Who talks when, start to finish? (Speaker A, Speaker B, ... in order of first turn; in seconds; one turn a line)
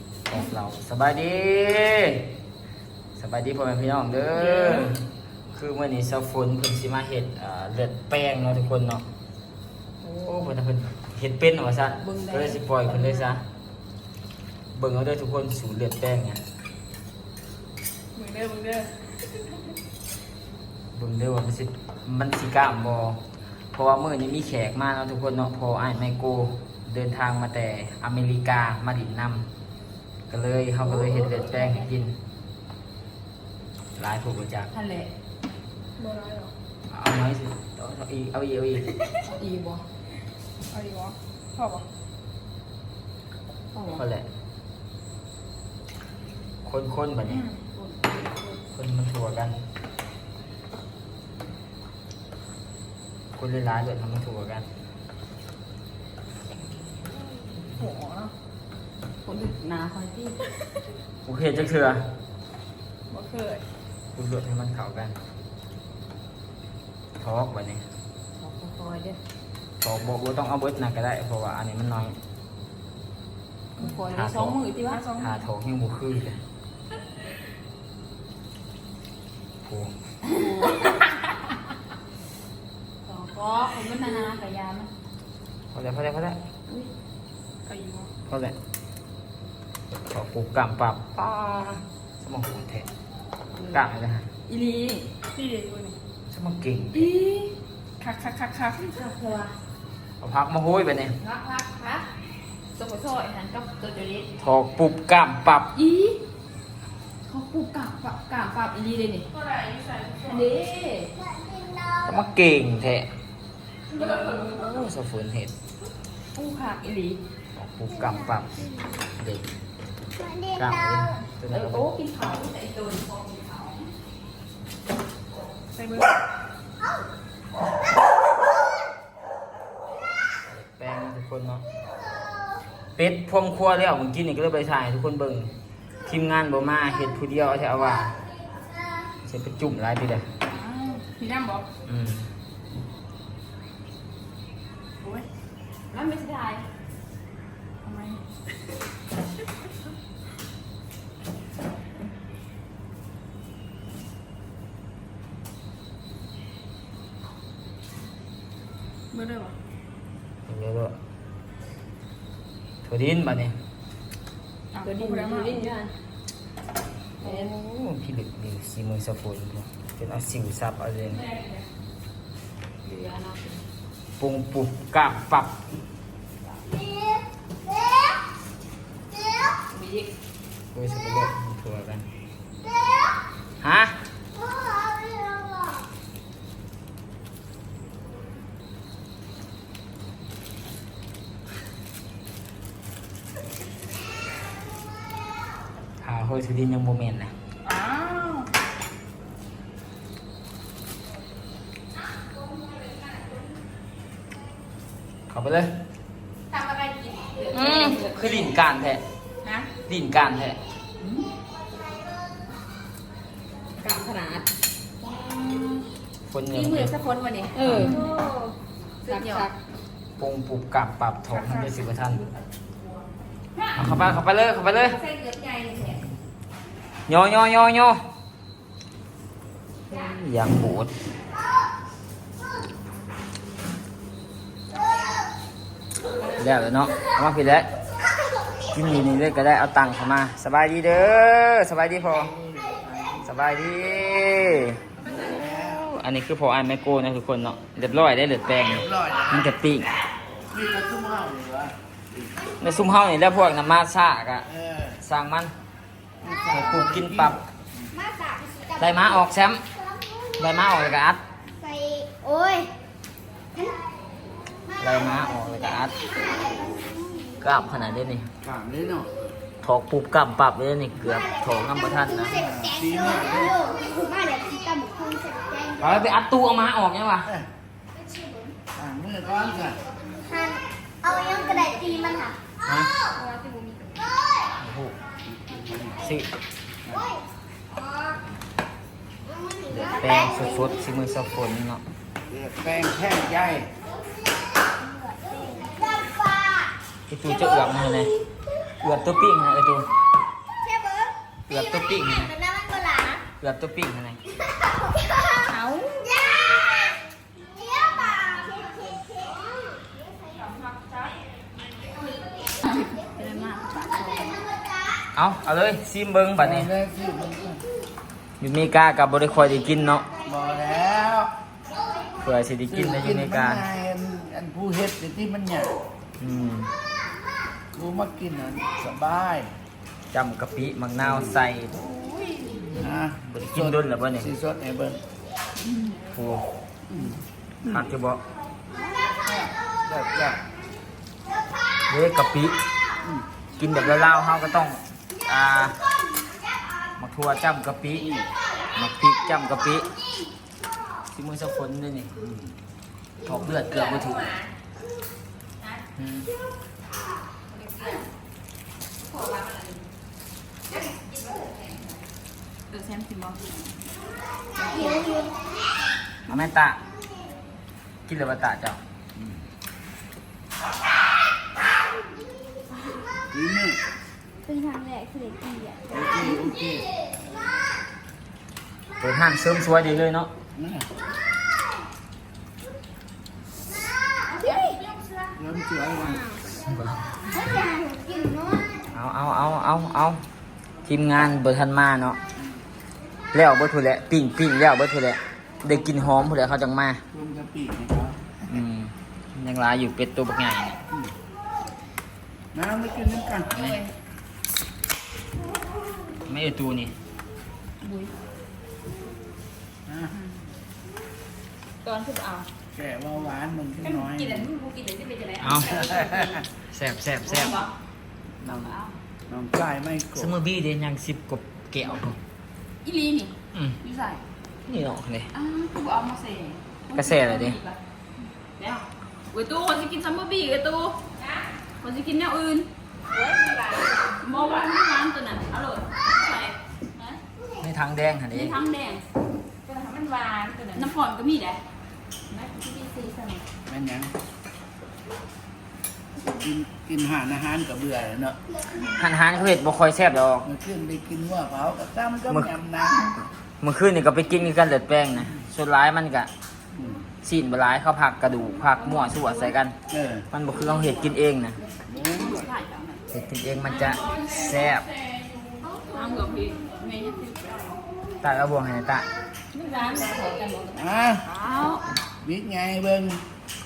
Speaker A: 0.3-2.3
Speaker A: 3.2-9.0
Speaker B: 4.3-5.0
Speaker B: 10.0-10.3
Speaker A: 10.2-13.4
Speaker B: 12.0-13.2
Speaker A: 14.7-16.4
Speaker C: 18.2-18.9
Speaker A: 20.9-29.5
Speaker A: 30.3-32.2
Speaker B: 30.9-31.9
Speaker A: 34.0-34.7
Speaker B: 34.7-35.1
Speaker C: 36.0-36.5
Speaker A: 36.9-39.0
Speaker B: 39.2-39.9
Speaker C: 40.7-41.9
Speaker B: 43.7-44.0
Speaker A: 43.9-44.3
Speaker A: 46.6-47.4
Speaker B: 47.8-48.5
Speaker A: 48.7-49.6
Speaker A: 53.4-54.7
Speaker C: 57.8-58.3
Speaker B: 59.3-60.4
Speaker A: 61.2-62.0
Speaker C: 63.1-63.6
Speaker A: 64.1-65.2
Speaker A: 67.2-67.8
Speaker B: 68.4-69.2
Speaker A: 69.8-72.2
Speaker B: 73.8-75.1
Speaker A: 73.9-74.6
Speaker C: 74.8-75.3
Speaker A: 75.2-76.4
Speaker A: 79.6-79.9
Speaker B: 80.2-81.2
Speaker B: 83.1-84.9
Speaker A: 85.7-86.4
Speaker C: 87.7-88.1
Speaker A: 88.3-88.6
Speaker A: 90.1-92.9
Speaker A: 93.7-94.3
Speaker B: 94.5-95.1
Speaker C: 95.3-96.0
Speaker A: 96.3-97.1
Speaker B: 96.9-97.5
Speaker C: 98.0-99.0
Speaker B: 98.7-99.5
Speaker A: 100.2-101.2
Speaker B: 101.2-102.1
Speaker B: 102.8-104.3
Speaker A: 104.4-105.7
Speaker B: 105.8-106.2
Speaker B: 107.3-109.3
Speaker C: 109.3-110.5
Speaker B: 110.2-111.1
Speaker D: 111.4-111.9
Speaker A: 112.0-113.1
Speaker B: 113.9-114.6
Speaker A: 114.0-115.5
Speaker B: 116.3-117.2
Speaker A: 117.6-119.5
Speaker D: 120.2-120.5
Speaker A: 120.5-121.9
Speaker B: 121.5-123.9
Speaker C: 125.8-126.1
Speaker A: 130.5-131.6
Speaker A: 133.0-135.5
Speaker A: 136.1-138.2
Speaker A: 139.3-140.3
Speaker B: 140.5-141.7
Speaker A: 141.9-142.3
Speaker B: 145.9-146.7
Speaker B: 147.8-148.2
Speaker C: 159.1-159.5
Speaker A: 160.5-160.9
Speaker A: 162.8-163.6
Speaker C: 164.7-165.7
Speaker B: 164.8-165.9
Speaker A: 167.2-171.3
Speaker B: 167.2-167.5
Speaker B: 171.2-171.6
Speaker B: 172.8-173.6
Speaker A: 174.2-175.6
Speaker B: 179.7-180.1
Speaker A: 180.7-182.1
Speaker A: 183.6-184.0
Speaker D: 184.6-185.7
Speaker A: 196.0-197.3
Speaker B: 197.7-198.5
Speaker A: 205.3-205.7
Speaker B: 206.5-208.6
Speaker A: 207.5-209.0
Speaker B: 209.4-209.7
Speaker A: 209.9-210.6
Speaker B: 211.0-211.3
Speaker B: 213.8-214.5
Speaker B: 215.0-215.8
Speaker A: 216.3-216.9
Speaker B: 216.5-218.3
Speaker A: 217.6-218.0
Speaker C: 217.8-218.5
Speaker B: 219.1-219.5
Speaker C: 219.1-219.4
Speaker A: 220.2-222.2
Speaker C: 221.3-221.9
Speaker A: 223.8-225.0
Speaker B: 225.0-226.0
Speaker A: 227.1-228.0
Speaker A: 229.9-230.9
Speaker A: 236.3-237.7
Speaker A: 238.7-242.3
Speaker E: 242.3-243.3
Speaker A: 243.2-249.9
Speaker E: 245.0-245.8
Speaker E: 248.6-249.5
Speaker E: 250.5-252.3
Speaker A: 252.6-254.5
Speaker E: 254.5-255.0
Speaker A: 255.0-255.5
Speaker E: 256.2-257.4
Speaker A: 256.5-257.4
Speaker D: 258.0-258.7
Speaker A: 258.8-259.6
Speaker A: 260.4-261.2
Speaker D: 261.6-262.7
Speaker A: 264.8-265.9
Speaker D: 266.5-267.3
Speaker A: 267.4-268.3
Speaker E: 268.4-269.3
Speaker A: 269.6-272.4
Speaker E: 272.2-273.7
Speaker D: 272.5-275.8
Speaker A: 275.8-277.3
Speaker E: 278.7-279.8
Speaker D: 280.2-282.4
Speaker B: 281.1-282.1
Speaker A: 282.6-282.9
Speaker B: 283.1-284.1
Speaker A: 284.6-284.9
Speaker E: 285.4-286.0
Speaker A: 286.0-286.3
Speaker E: 286.9-287.1
Speaker D: 289.4-290.5
Speaker A: 289.7-291.8
Speaker E: 292.3-293.7
Speaker D: 295.0-296.6
Speaker A: 297.1-298.1
Speaker A: 298.8-299.9
Speaker D: 300.6-301.1
Speaker A: 301.5-302.4
Speaker D: 302.4-303.2
Speaker A: 303.4-304.2
Speaker B: 305.5-305.9
Speaker D: 307.6-308.4
Speaker B: 308.2-308.7
Speaker B: 310.6-311.0
Speaker B: 312.6-314.4
Speaker A: 315.1-316.7
Speaker E: 316.4-317.6
Speaker A: 318.4-320.1
Speaker E: 320.2-321.3
Speaker A: 322.2-323.6
Speaker E: 322.7-325.8
Speaker A: 326.2-326.7
Speaker E: 327.7-329.5
Speaker A: 330.1-331.8
Speaker E: 331.0-331.4
Speaker E: 332.6-335.0
Speaker A: 333.2-334.3
Speaker B: 335.7-336.0
Speaker A: 336.1-336.5
Speaker E: 336.9-337.8
Speaker A: 337.6-338.2
Speaker E: 339.3-340.4
Speaker A: 341.9-342.6
Speaker A: 343.6-345.8
Speaker A: 347.0-348.1
Speaker A: 348.8-349.9
Speaker A: 351.1-352.1
Speaker E: 352.2-352.5
Speaker A: 353.2-354.3
Speaker B: 353.6-354.5
Speaker A: 356.0-356.3
Speaker B: 357.5-358.1
Speaker B: 359.0-359.8
Speaker B: 360.7-361.8
Speaker B: 362.7-363.6
Speaker B: 364.6-365.1
Speaker D: 364.7-365.4
Speaker A: 366.3-366.8
Speaker A: 368.1-368.8
Speaker E: 373.3-373.8
Speaker D: 374.5-376.4
Speaker E: 375.9-376.9
Speaker A: 379.0-380.3
Speaker E: 380.6-380.9
Speaker D: 384.4-384.7
Speaker B: 384.4-385.1
Speaker E: 385.4-386.4
Speaker A: 386.6-387.4
Speaker D: 387.4-388.7
Speaker A: 388.9-390.2
Speaker A: 390.9-392.2
Speaker A: 393.3-397.0
Speaker E: 397.1-398.4
Speaker A: 398.5-400.8
Speaker E: 402.5-403.8
Speaker B: 403.5-403.9
Speaker A: 406.3-406.9
Speaker B: 407.8-408.1
Speaker E: 409.9-410.2
Speaker B: 411.8-412.5
Speaker E: 412.7-414.5
Speaker B: 413.8-416.4
Speaker A: 415.4-415.9
Speaker E: 415.7-416.4
Speaker A: 416.6-417.6
Speaker B: 417.2-417.7
Speaker E: 418.4-418.7
Speaker B: 418.4-419.0
Speaker E: 419.3-420.4
Speaker A: 420.2-422.2
Speaker B: 422.8-424.2
Speaker A: 423.5-423.8
Speaker A: 424.7-425.3
Speaker B: 425.3-427.8
Speaker A: 426.9-427.6
Speaker B: 428.6-431.2
Speaker B: 431.8-437.2
Speaker A: 437.6-438.6
Speaker B: 438.3-439.1
Speaker B: 439.7-441.6
Speaker B: 442.3-443.4
Speaker E: 443.7-444.1
Speaker E: 446.2-448.4
Speaker A: 448.8-450.5
Speaker E: 450.4-453.1
Speaker A: 453.6-456.3
Speaker E: 456.8-457.0
Speaker A: 457.2-459.8
Speaker B: 458.8-459.5
Speaker E: 459.9-460.3
Speaker A: 460.3-461.6
Speaker E: 461.9-462.5
Speaker B: 462.0-463.0
Speaker A: 463.1-464.9
Speaker B: 463.8-464.5
Speaker B: 465.9-467.8
Speaker A: 468.2-469.1
Speaker B: 469.5-471.9
Speaker E: 470.7-471.2
Speaker E: 472.2-473.2